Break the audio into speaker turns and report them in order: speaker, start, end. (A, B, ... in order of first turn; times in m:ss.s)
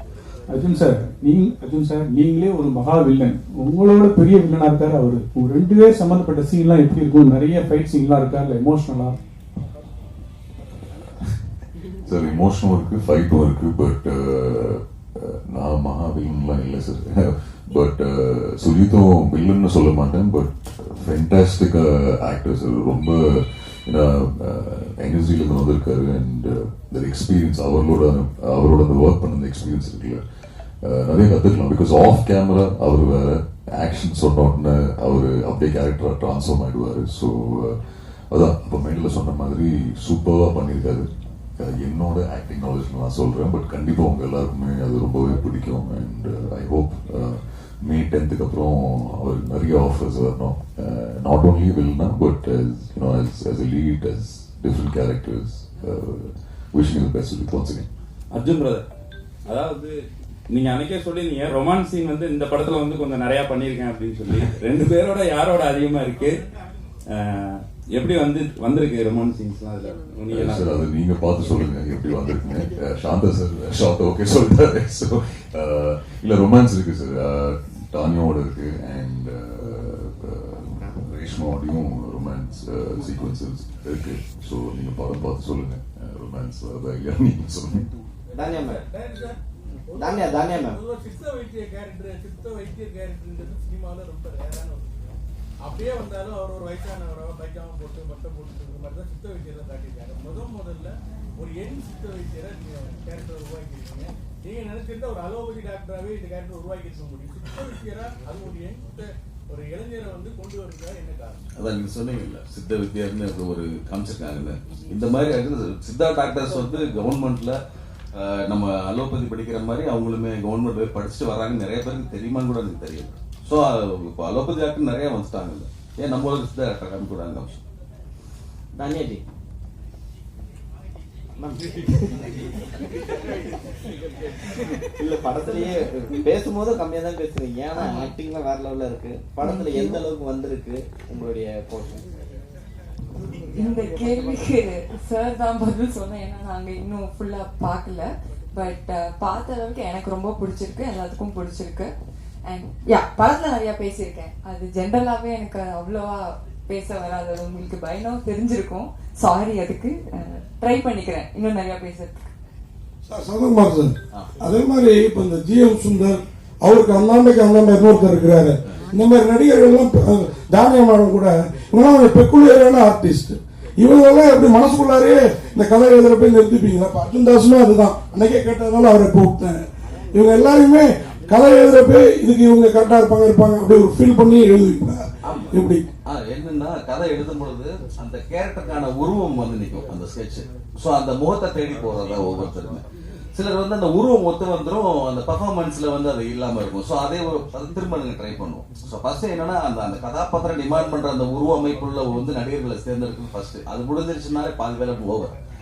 0:00.5-0:09.2 A
0:12.0-0:30.2 B
0:30.8-0:37.8 B
0:38.3-0:57.9 B
0:58.3-0:58.8 C
0:59.5-1:06.3 C
1:07.1-1:10.7 C
1:10.3-1:27.9 B
1:28.3-1:29.4 D
1:28.3-1:28.8 E
1:29.9-1:51.5 D
1:30.0-1:30.8 E
1:51.6-1:57.6 F
1:58.2-2:07.6 F
2:08.8-2:09.2 E
2:11.4-2:12.4 E
2:15.0-2:22.0 E
2:17.8-2:18.1 G
2:23.5-2:31.9 G
2:32.4-2:42.3 G
2:43.1-2:59.6 H
3:00.2-3:05.0 H
3:05.3-3:05.6 F
3:05.5-3:05.8 H
3:06.1-3:12.8 F
3:13.4-3:25.3 F